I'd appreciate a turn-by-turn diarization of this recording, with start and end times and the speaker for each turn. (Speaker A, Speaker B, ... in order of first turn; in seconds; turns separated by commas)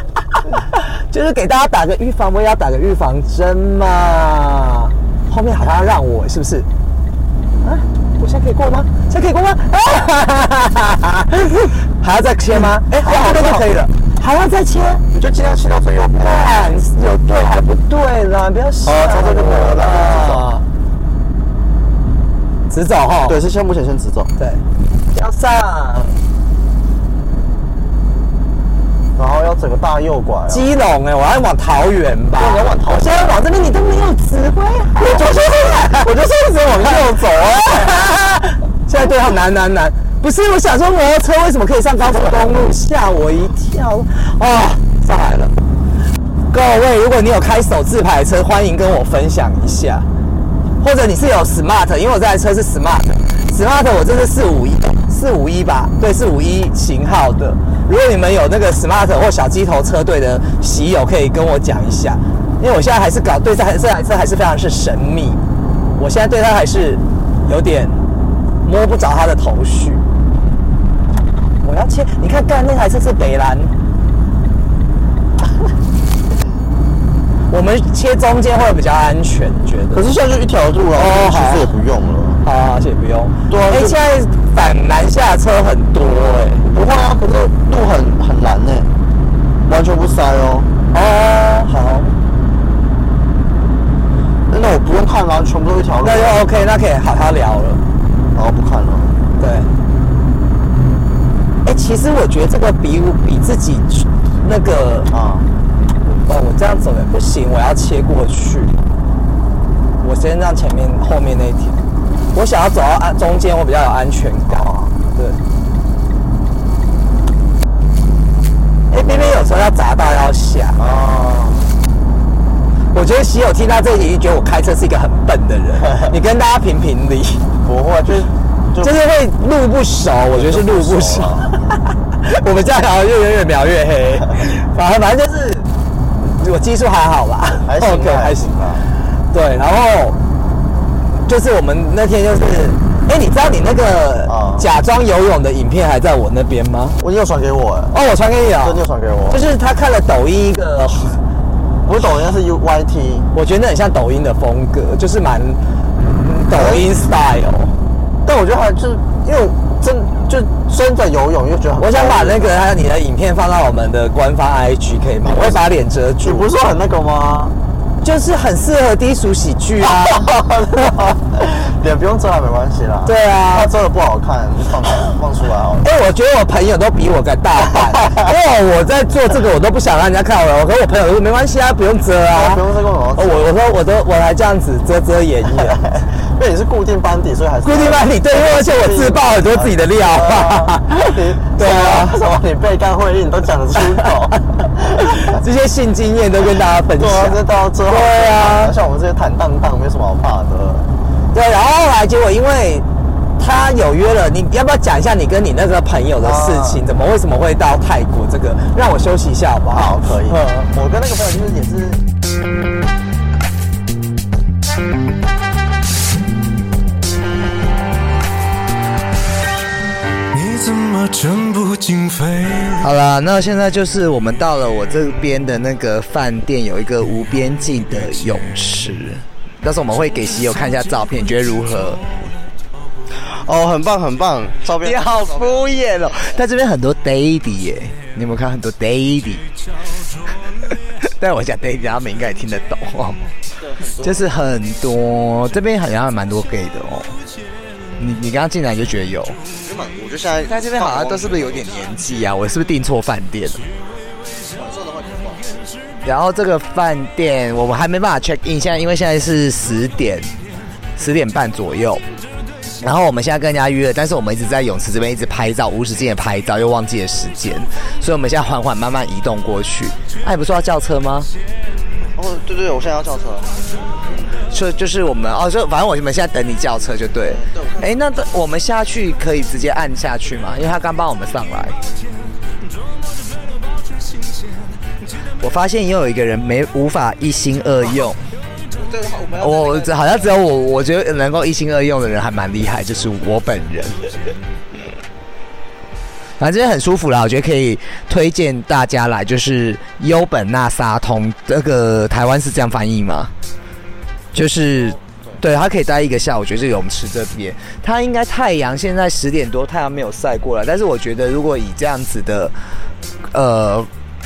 Speaker A: 0.5-6.7, Speaker A: 7.6-15.0, Speaker B: 12.5-13.7, Speaker B: 15.1-16.6, Speaker A: 16.2-20.6, Speaker B: 18.8-20.5, Speaker A: 22.7-23.4, Speaker B: 23.3-24.3, Speaker A: 25.1-26.1, Speaker B: 29.1-30.7, Speaker A: 30.5-36.1, Speaker B: 32.4-33.0, Speaker B: 35.0-38.0, Speaker A: 36.8-45.5, Speaker A: 46.5-50.1, Speaker A: 50.8-65.4, Speaker A: 66.0-68.0, Speaker A: 68.6-70.0, Speaker A: 71.6-73.7, Speaker A: 77.5-80.1, Speaker B: 79.9-82.4, Speaker A: 80.9-81.7, Speaker A: 82.4-86.7, Speaker B: 83.5-84.0, Speaker B: 86.7-88.9, Speaker B: 89.7-90.7, Speaker A: 90.9-92.1, Speaker B: 94.5-96.5, Speaker A: 96.0-97.8, Speaker B: 98.3-99.1, Speaker A: 99.4-99.7, Speaker A: 101.6-105.1, Speaker B: 105.1-105.5, Speaker A: 106.2-108.8, Speaker A: 110.0-111.8, Speaker A: 112.3-115.4, Speaker B: 114.5-114.9, Speaker A: 118.9-120.8, Speaker B: 119.0-119.3, Speaker B: 120.8-121.7, Speaker A: 122.9-127.4, Speaker B: 125.9-126.1, Speaker B: 127.6-128.9, Speaker A: 128.8-135.7, Speaker B: 130.3-131.5, Speaker A: 136.2-138.5, Speaker B: 137.7-138.8, Speaker A: 139.3-140.2, Speaker A: 141.3-147.0, Speaker B: 144.2-144.7, Speaker B: 147.0-147.9, Speaker A: 147.9-148.8, Speaker B: 148.6-149.4, Speaker A: 149.3-151.2, Speaker B: 151.8-153.3, Speaker A: 153.3-157.7, Speaker B: 156.5-156.9, Speaker B: 158.2-162.6, Speaker A: 161.8-166.5, Speaker B: 165.2-165.6, Speaker B: 166.2-167.6, Speaker A: 168.0-170.9, Speaker B: 169.8-175.9, Speaker A: 173.1-173.7, Speaker A: 175.8-182.6, Speaker B: 177.7-178.3, Speaker B: 182.3-183.5, Speaker A: 183.2-185.8, Speaker B: 185.6-195.4, Speaker A: 187.6-192.2, Speaker A: 195.0-198.7, Speaker B: 197.0-200.9, Speaker A: 201.3-202.8, Speaker A: 203.4-210.0, Speaker B: 206.2-206.8, Speaker B: 209.7-212.0, Speaker C: 220.3-222.8, Speaker D: 222.8-232.0, Speaker B: 233.2-235.6, Speaker D: 234.8-239.4, Speaker D: 241.2-243.2, Speaker B: 243.6-244.2, Speaker D: 244.0-247.1, Speaker D: 248.0-249.4, Speaker B: 249.6-251.6, Speaker D: 250.5-253.6, Speaker B: 254.5-255.7, Speaker D: 256.0-260.3, Speaker D: 260.9-262.0, Speaker D: 262.8-271.3, Speaker B: 272.1-273.5, Speaker D: 274.5-281.8, Speaker B: 277.2-277.9, Speaker D: 285.4-288.2, Speaker B: 288.7-290.2, Speaker D: 289.4-294.1, Speaker D: 296.4-303.3, Speaker D: 304.3-312.5, Speaker D: 313.3-313.9